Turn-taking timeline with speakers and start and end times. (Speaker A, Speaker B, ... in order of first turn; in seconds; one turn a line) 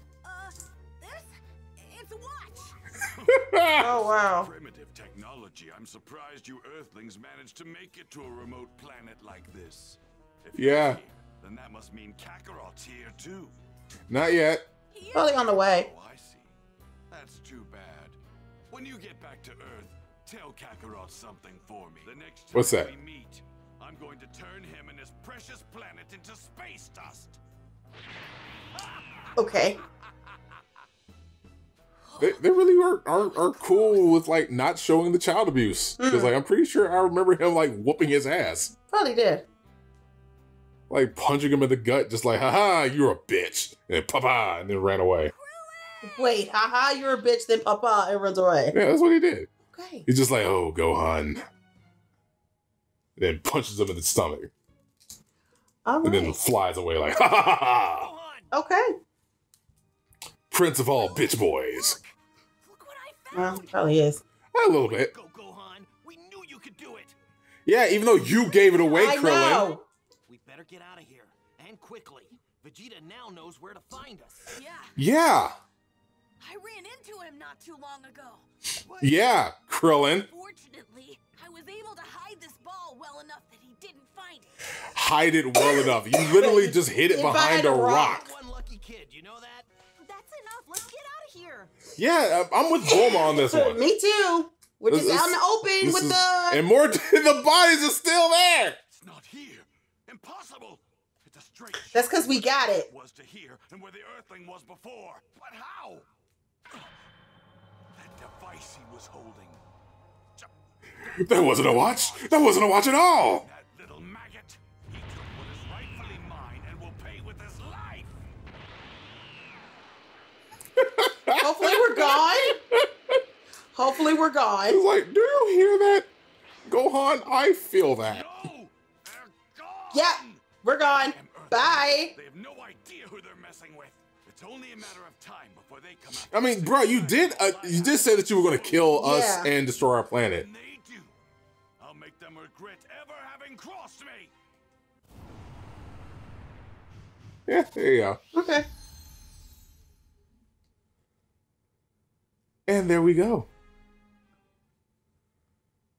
Speaker A: 0.2-2.7
Speaker B: 3.1-13.5
Speaker C: 3.3-3.9
Speaker D: 3.8-4.5
Speaker C: 10.6-11.0
Speaker C: 14.1-14.6
Speaker A: 14.9-15.4
Speaker D: 15.1-15.9
Speaker B: 15.6-16.5
Speaker B: 17.1-18.2
Speaker B: 18.7-27.4
Speaker C: 22.5-22.9
Speaker D: 29.4-29.8
Speaker A: 32.1-32.4
Speaker C: 32.2-38.7
Speaker A: 33.2-34.0
Speaker D: 36.0-36.3
Speaker D: 38.9-39.5
Speaker C: 40.9-45.3
Speaker A: 45.3-46.4
Speaker D: 46.0-48.8
Speaker C: 48.7-49.5
Speaker D: 49.7-50.0
Speaker C: 50.0-51.4
Speaker C: 53.2-54.5
Speaker D: 55.8-56.4
Speaker C: 56.0-58.1
Speaker E: 58.0-58.5
Speaker D: 58.5-58.9
Speaker C: 60.5-62.0
Speaker E: 61.0-61.3
Speaker E: 61.8-62.1
Speaker E: 62.6-63.8
Speaker D: 63.3-64.2
Speaker C: 64.5-65.1
Speaker E: 64.8-67.1
Speaker C: 67.7-69.7
Speaker D: 68.9-69.8
Speaker E: 70.3-74.5
Speaker A: 74.5-74.9
Speaker C: 75.0-75.5
Speaker A: 76.4-78.4
Speaker E: 78.8-79.2
Speaker C: 79.0-80.3
Speaker A: 80.3-84.5
Speaker C: 84.9-88.3
Speaker D: 85.6-88.3
Speaker E: 87.8-89.7
Speaker A: 90.0-91.7
Speaker C: 92.0-93.8
Speaker D: 92.9-96.6
Speaker C: 94.9-98.8
Speaker B: 98.9-106.1
Speaker D: 101.9-102.9
Speaker B: 107.9-109.6
Speaker B: 111.1-112.6
Speaker C: 111.1-113.5
Speaker B: 113.4-118.1
Speaker C: 120.8-123.2
Speaker D: 121.4-122.6
Speaker D: 123.7-124.8
Speaker C: 124.7-126.1
Speaker C: 126.7-128.2
Speaker B: 128.0-130.4
Speaker D: 129.9-132.1
Speaker B: 131.0-138.9
Speaker C: 136.3-140.4
Speaker D: 138.9-139.5
Speaker B: 140.3-141.1
Speaker B: 141.8-144.3
Speaker C: 147.5-148.2
Speaker D: 148.3-148.7
Speaker C: 152.7-153.5